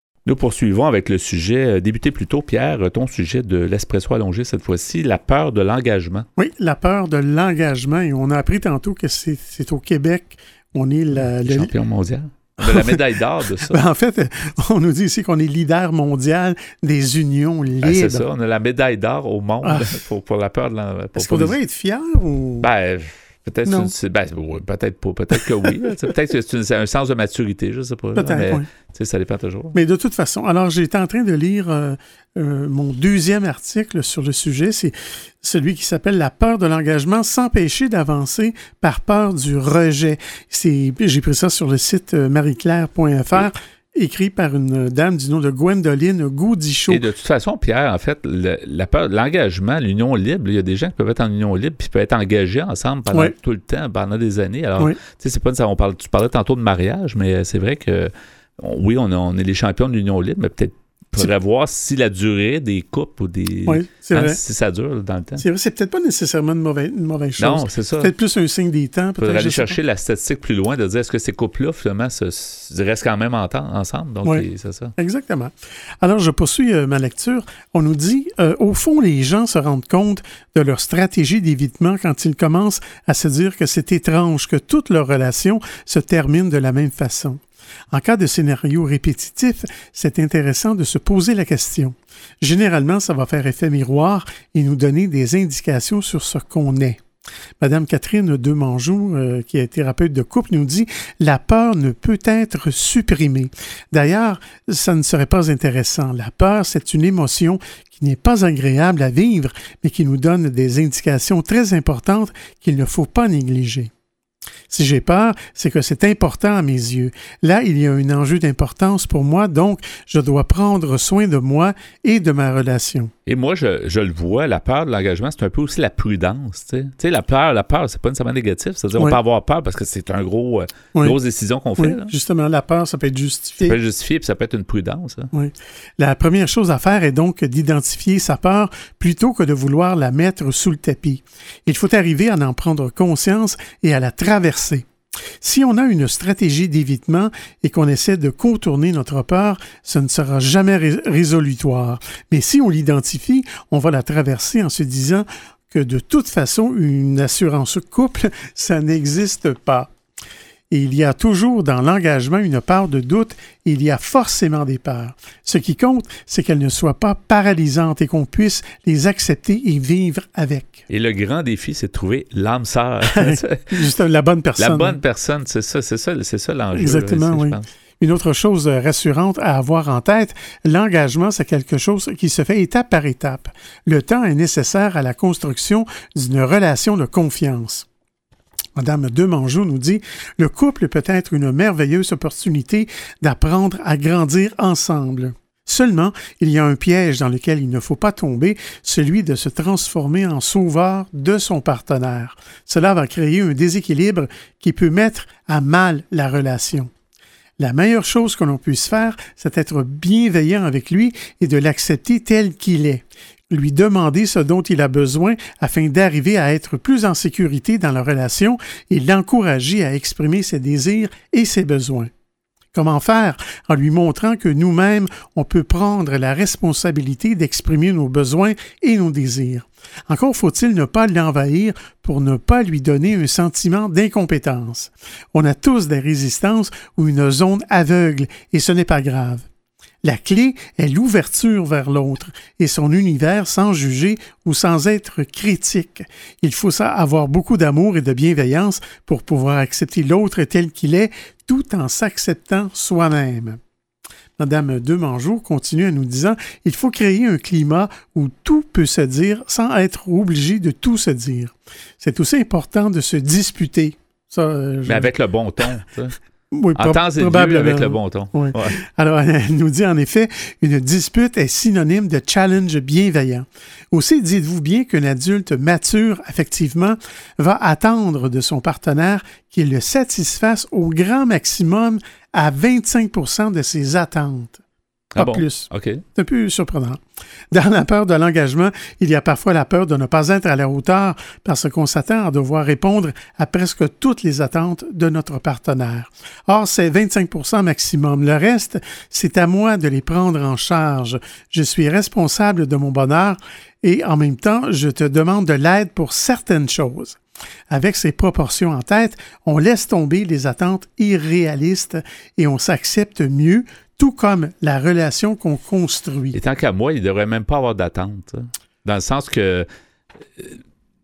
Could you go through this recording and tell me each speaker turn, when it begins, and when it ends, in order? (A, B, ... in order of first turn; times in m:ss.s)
0:00.3-0:06.2 A
0:06.4-0:11.7 B
0:11.4-0:13.8 A
0:12.6-0:13.1 B
0:13.6-0:18.3 B
0:17.8-0:21.6 A
0:19.6-0:19.9 B
0:21.2-0:22.7 B
0:22.6-0:29.8 A
0:23.7-0:23.9 B
0:28.2-0:28.6 B
0:29.7-0:47.0 B
0:46.9-1:05.4 A
1:03.7-1:04.4 B
1:05.4-1:09.8 B
1:07.4-1:08.1 A
1:09.2-1:14.9 A
1:15.0-1:37.0 B
1:37.6-1:53.9 B
1:54.7-2:03.1 B
2:03.3-2:12.1 A
2:11.8-2:13.8 B
2:13.6-2:15.3 A
2:15.3-2:24.9 B
2:25.4-2:39.9 B
2:40.7-2:50.8 B
2:50.9-2:53.8 A
2:53.0-2:55.0 B
2:54.6-2:57.6 A
2:56.7-3:07.9 B
3:08.8-3:26.9 B
3:27.6-3:42.1 B
3:42.7-3:59.4 B
4:00.0-4:13.6 B
4:14.4-4:25.1 B
4:24.9-4:26.2 A
4:26.5-4:44.6 B
4:26.8-4:28.8 A
4:45.2-4:46.0 A
4:45.2-4:47.0 B
4:47.5-5:07.2 B
5:07.7-5:16.4 B
5:16.3-5:19.7 A